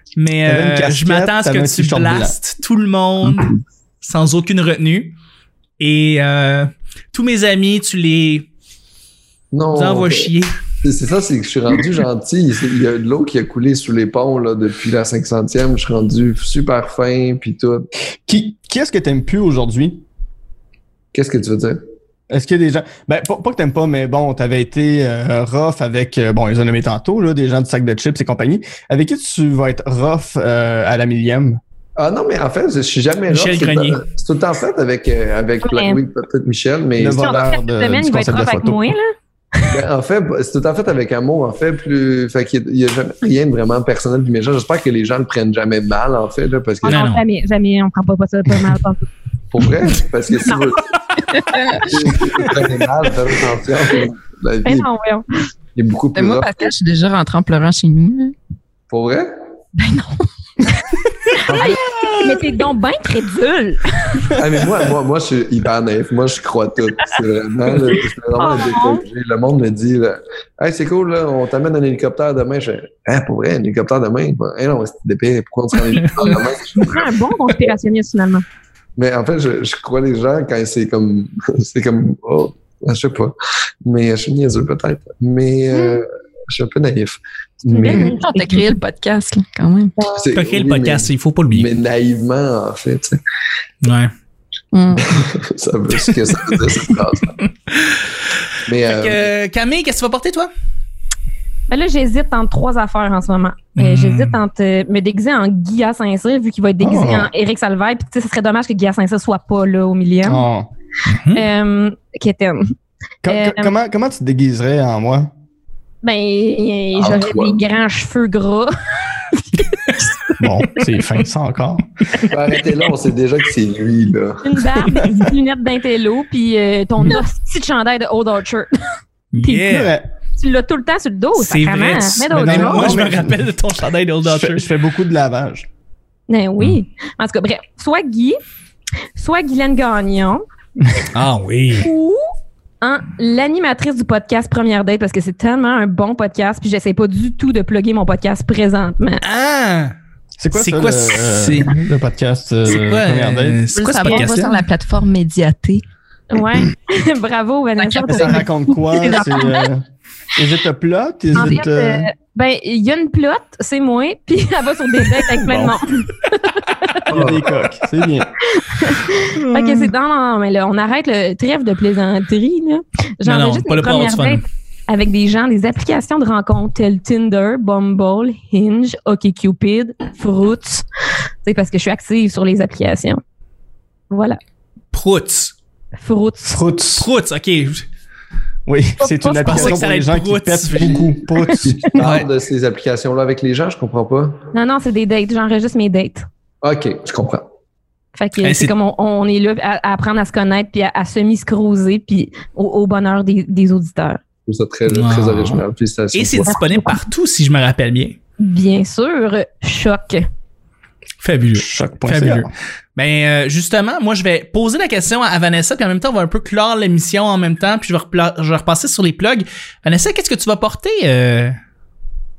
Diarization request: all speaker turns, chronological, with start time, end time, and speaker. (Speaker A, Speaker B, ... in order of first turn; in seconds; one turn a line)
Speaker A: 0.2-5.1
Speaker B: 0.5-2.4
Speaker A: 5.8-8.5
Speaker C: 9.5-10.3
Speaker A: 9.7-10.6
Speaker C: 10.8-17.9
Speaker B: 18.3-20.0
Speaker C: 21.1-21.8
Speaker B: 22.3-31.6
Speaker C: 32.0-37.6
Speaker A: 33.3-34.0
Speaker D: 35.6-36.0
Speaker B: 37.0-38.9
Speaker D: 37.2-39.7
Speaker C: 39.7-47.0
Speaker D: 46.8-49.1
Speaker A: 46.9-47.2
Speaker C: 49.5-50.9
Speaker E: 51.3-52.1
Speaker C: 51.8-54.9
Speaker D: 54.6-55.2
Speaker C: 55.8-56.7
Speaker E: 56.1-58.4
Speaker C: 58.9-59.3
Speaker E: 59.8-60.7
Speaker C: 61.5-61.8
Speaker D: 61.5-64.3
Speaker C: 64.3-77.1
Speaker D: 68.4-69.0
Speaker A: 76.0-76.3
Speaker D: 76.2-78.4
Speaker C: 79.0-88.2
Speaker E: 85.7-86.0
Speaker D: 87.7-88.6
Speaker E: 87.8-90.0
Speaker C: 90.1-93.2
Speaker A: 90.3-91.7
Speaker A: 93.8-94.1
Speaker E: 94.7-95.2
Speaker C: 95.0-97.4
Speaker C: 98.7-99.3
Speaker A: 98.9-100.5
Speaker D: 101.7-110.4
Speaker A: 103.8-104.4
Speaker B: 106.8-107.3
Speaker B: 110.3-110.7
Speaker A: 111.1-111.4
Speaker D: 111.3-112.7
Speaker B: 113.2-115.3
Speaker D: 113.3-113.7
Speaker D: 116.0-120.3
Speaker C: 117.0-117.6
Speaker B: 120.4-121.8
Speaker C: 122.3-124.6
Speaker D: 124.4-128.7
Speaker A: 129.3-129.9
Speaker D: 129.4-129.8
Speaker B: 129.7-130.1
Speaker D: 130.4-133.1
Speaker A: 131.3-134.7
Speaker B: 132.3-133.4
Speaker B: 134.2-135.7
Speaker D: 136.3-138.4
Speaker D: 139.2-140.4
Speaker A: 141.1-141.9
Speaker D: 141.8-142.2
Speaker D: 142.8-149.2
Speaker A: 149.2-149.9
Speaker B: 150.4-153.6
Speaker A: 150.5-151.7
Speaker A: 152.7-154.6
Speaker E: 153.7-155.8
Speaker D: 156.3-158.5
Speaker E: 157.8-159.7
Speaker B: 158.1-159.8
Speaker D: 159.0-159.6
Speaker B: 160.4-162.1
Speaker D: 161.3-167.0
Speaker E: 161.3-161.6
Speaker B: 165.4-165.8
Speaker B: 167.1-168.3
Speaker C: 167.1-167.5
Speaker D: 168.5-180.8
Speaker A: 169.4-169.9
Speaker A: 173.3-174.4
Speaker D: 181.4-183.2
Speaker D: 184.1-184.4
Speaker A: 184.9-185.5
Speaker D: 186.0-186.6
Speaker B: 186.5-187.1
Speaker A: 186.9-187.8
Speaker B: 188.7-191.9
Speaker D: 189.0-189.8
Speaker A: 189.4-191.0
Speaker C: 190.8-194.4
Speaker A: 192.0-192.3
Speaker D: 194.5-196.3
Speaker C: 196.6-197.4
Speaker D: 198.2-204.2
Speaker A: 198.4-198.7
Speaker C: 204.5-206.5
Speaker A: 204.9-205.6
Speaker A: 206.1-208.2
Speaker D: 206.5-207.0
Speaker D: 208.4-210.3
Speaker A: 211.2-221.6
Speaker B: 211.5-212.5